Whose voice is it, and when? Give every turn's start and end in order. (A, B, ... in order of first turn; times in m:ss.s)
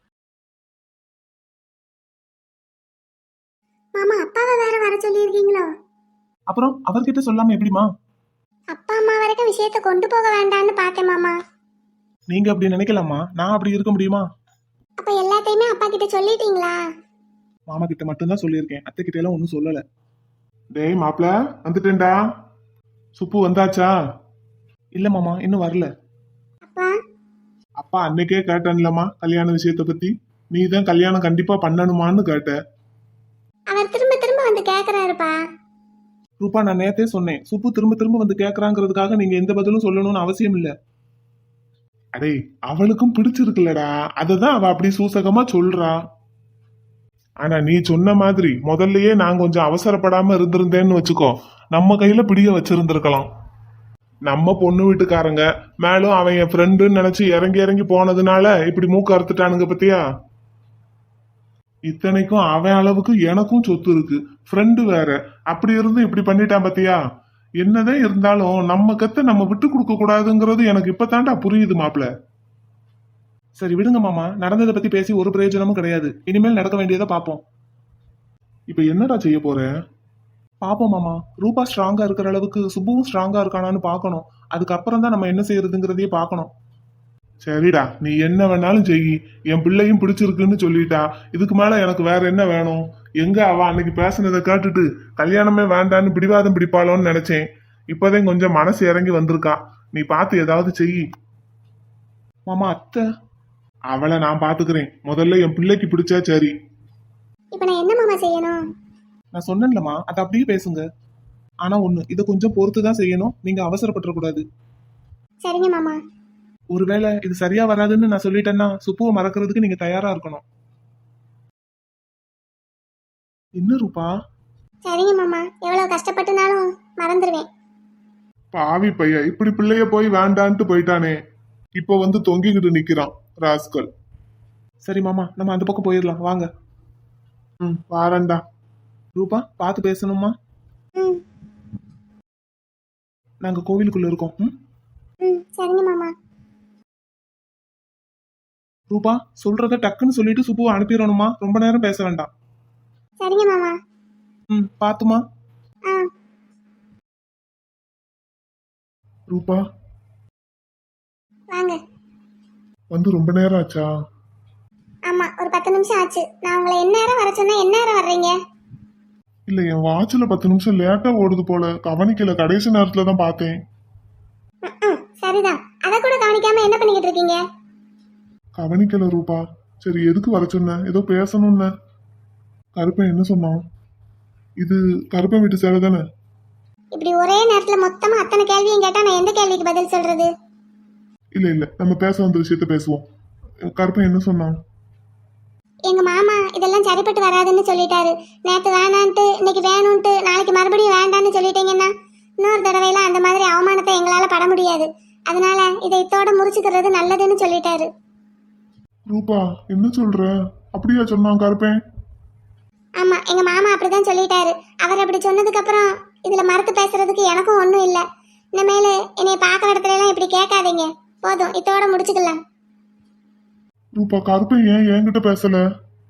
0:04.0-0:05.7 A
0:06.5-0:07.9 B
0:08.7-0:11.3 A
0:12.3-0:14.3 B
0:15.0-0:16.8 A
0:17.7-0:19.8 B
0:20.7-0:22.2 B
0:23.2-0:23.9 B
0:24.9-0:25.9 B
0:27.8-0:32.6 B
0:33.7-0:35.4 A
0:36.4-0:40.7 B
0:42.2-0:46.0 B
0:47.4-0:53.3 B
0:54.3-1:00.0 B
1:01.9-1:07.0 B
1:07.6-1:12.1 B
1:13.6-1:17.4 B
1:18.7-1:19.7 B
1:20.6-1:26.5 B
1:27.4-1:41.0 B
1:42.5-1:43.0 B
1:43.9-1:46.5 B
1:47.5-1:48.6 A
1:49.3-1:50.8 B
1:51.6-1:54.4 B
1:55.4-1:56.0 A
1:56.7-2:00.4 B
2:03.6-2:04.1 B
2:04.8-2:07.4 A
2:08.5-2:11.1 C
2:11.8-2:13.9 C
2:14.8-2:16.5 B
2:17.6-2:18.4 B
2:19.2-2:20.3 B
2:23.4-2:24.6 B
2:25.2-2:26.1 A
2:28.9-2:32.3 B
2:33.2-2:33.8 A
2:34.5-2:35.2 B
2:39.3-2:39.6 C
2:41.5-2:41.8 A
2:42.9-2:43.9 C
2:45.1-2:48.3 A
2:49.5-2:53.5 C
2:54.7-2:57.4 A
2:58.6-3:01.7 C
3:02.8-3:03.6 C
3:04.6-3:06.0 C
3:07.0-3:10.3 A
3:11.4-3:13.0 C
3:13.7-3:14.6 C
3:15.9-3:27.9 A
3:29.1-3:31.8 C
3:33.0-3:38.0 A
3:38.6-3:42.4 A
3:44.0-3:45.6 C